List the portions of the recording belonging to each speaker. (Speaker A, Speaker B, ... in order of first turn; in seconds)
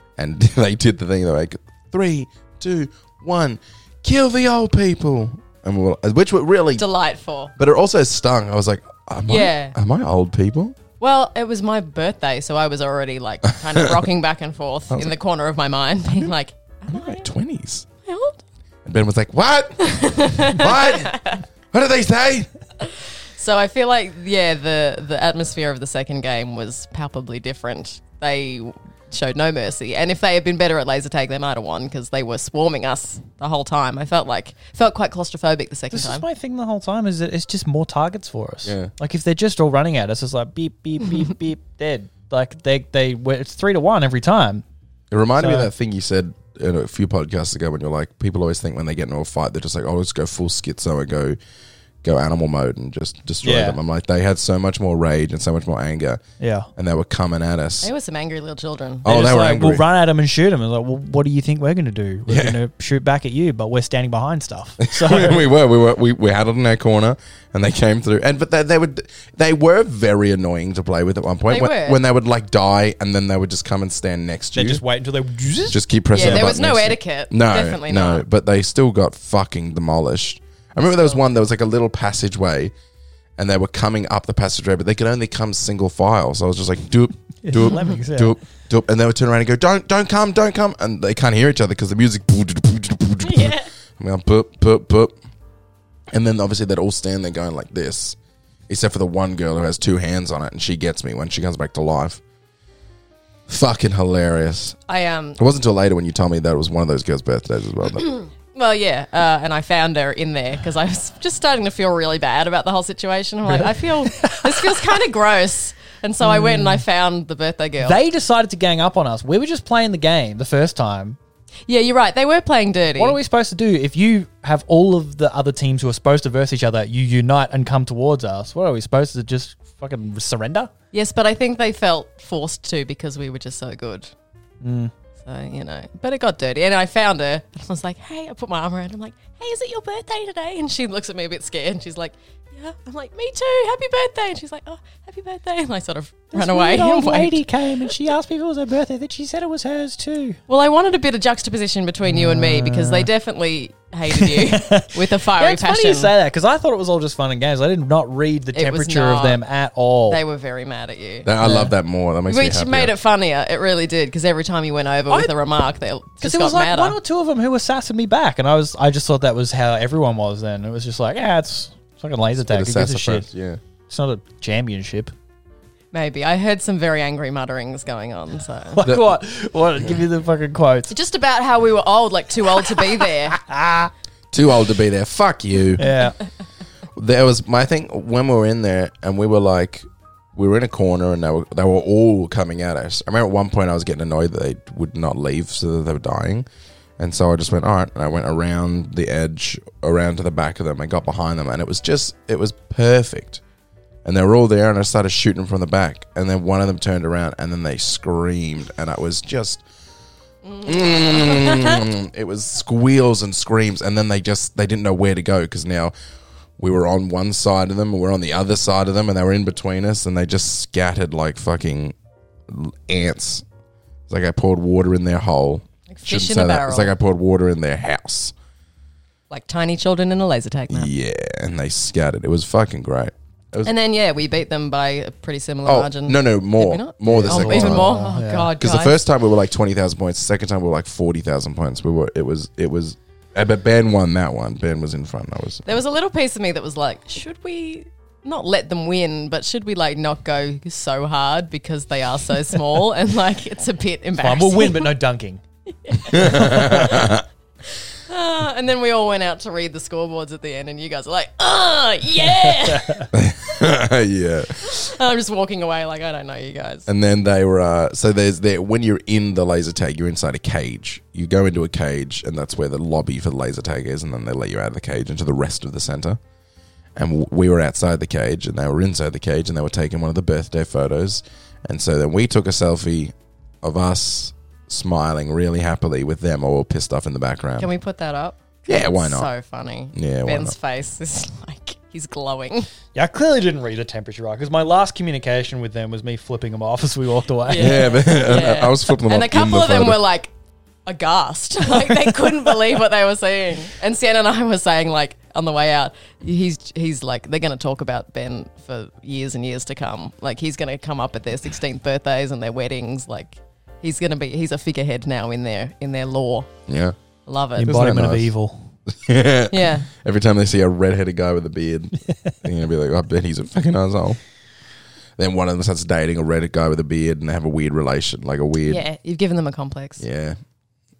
Speaker A: 0.2-6.8, 7.5-10.8, 16.9-17.9, 18.8-22.5, 38.6-38.9, 45.1-51.4, 52.0-56.2, 56.8-57.9, 59.0-59.8, 62.3-62.6, 64.8-74.8, 75.7-82.7, 83.4-95.1, 96.1-98.2, 98.7-102.2, 103.5-104.8, 105.4-108.1, 161.2-162.9, 172.4-173.6, 178.8-179.1, 184.3-185.8, 186.9-196.5, 197.0-203.4, 204.0-209.6, 210.6-215.9, 216.6-221.9, 222.5-223.4, 224.1-228.3, 230.7-233.7, 235.7-237.9, 238.6-245.6, 256.1-257.2, 263.1-264.8, 266.9-276.2, 276.9-287.7, 288.7-289.3, 289.9-290.5, 297.6-300.0, 316.7-316.9, 317.6-318.3, 318.9-324.2, 325.2-328.8, 330.0-330.4
Speaker B: 6.8-7.5, 9.3-9.8, 11.0-17.3, 18.0-18.4, 19.8-21.4, 22.8-36.2, 57.8-59.1, 71.5-72.0, 76.1-78.2, 93.2-93.7, 104.9-105.4, 108.0-118.0, 121.7-123.2, 130.9-134.1, 135.2-147.9, 150.5-156.1, 158.5-159.4, 160.1-161.3, 162.3-167.0, 175.9-178.8, 180.9-183.4, 210.4-211.8, 225.9-226.9, 229.3-230.9, 233.6-239.0, 245.6-254.9, 255.8-263.1, 264.6-266.9, 287.6-292.7, 297.4-300.3, 300.9-316.5, 317.2-317.7, 319.5-319.9, 328.6-330.0
Speaker C: 35.9-44.6, 45.4-45.7, 53.4-53.8, 56.4-56.7, 59.0-65.5, 74.5-76.5, 87.4-88.3, 113.5-115.0, 116.2-116.8, 117.8-121.2, 123.0-130.7, 134.6-134.9, 146.3-150.4, 152.1-153.1, 154.1-160.2, 161.4-161.7, 166.2-173.2, 173.9-175.1, 178.7-180.9, 183.3-183.9, 185.8-186.2, 237.1-238.5, 254.2-255.4, 256.1-257.0, 262.4-263.1, 292.9-298.0, 317.6-318.7